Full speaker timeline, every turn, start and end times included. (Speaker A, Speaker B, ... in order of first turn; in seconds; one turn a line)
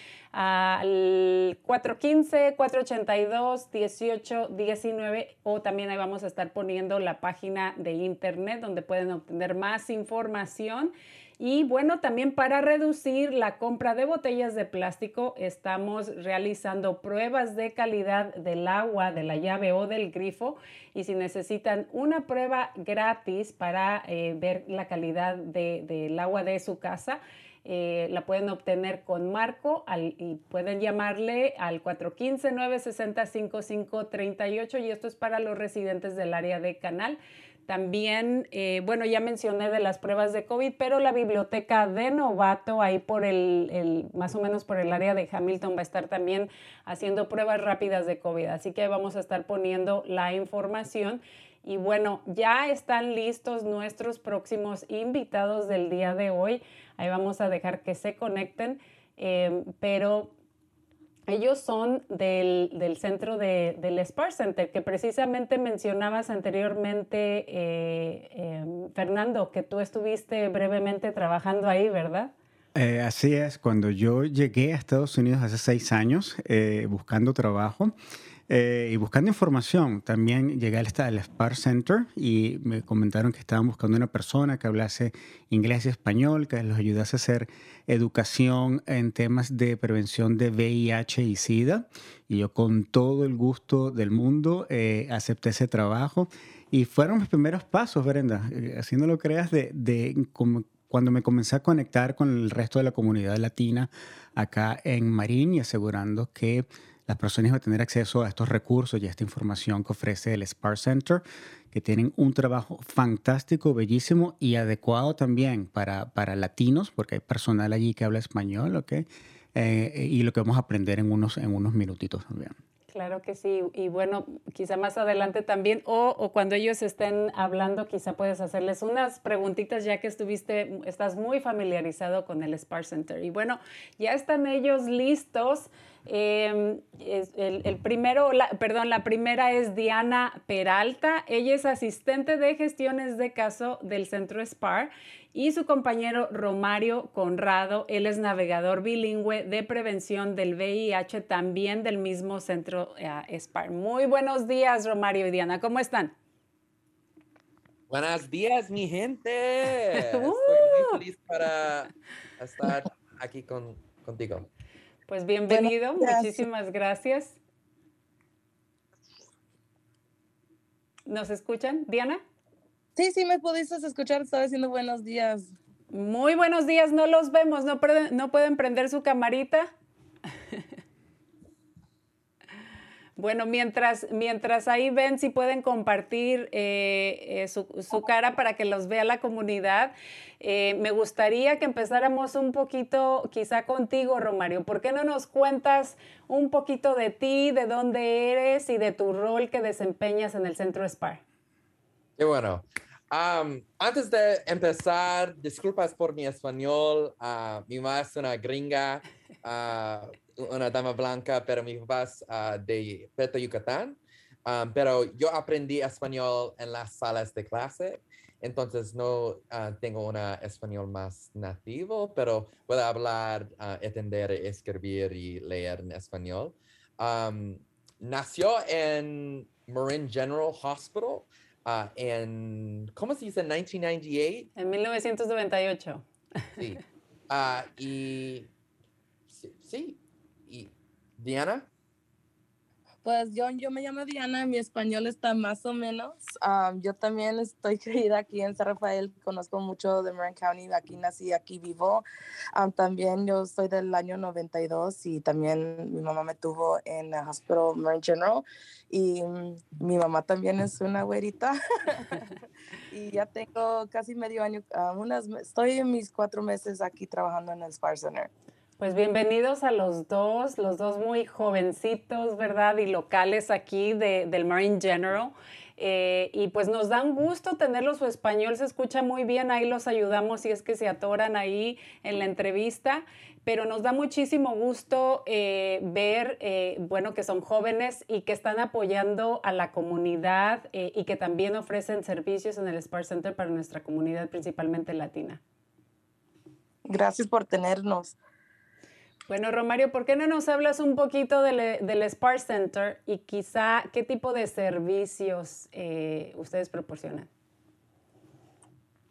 Speaker A: 0.3-60.3
Speaker A: 61.3-72.3
Speaker B: 72.7-77.9
Speaker B: 78.5-122.5
Speaker A: 122.9-156.1
Speaker C: 157.9-164.5
Speaker A: 159.9-161.0
Speaker A: 165.1-167.4
Speaker D: 165.5-166.4
Speaker A: 171.1-172.2
Speaker D: 172.9-175.5
Speaker A: 175.9-179.7
Speaker A: 183.2-201.2
Speaker C: 202.2-234.5
Speaker A: 234.6-236.0
Speaker C: 236.6-238.5
Speaker C: 239.3-241.7
Speaker D: 243.0-262.3
Speaker D: 262.9-268.3
Speaker A: 268.8-295.4
Speaker D: 296.9-298.1
Speaker A: 299.3-307.3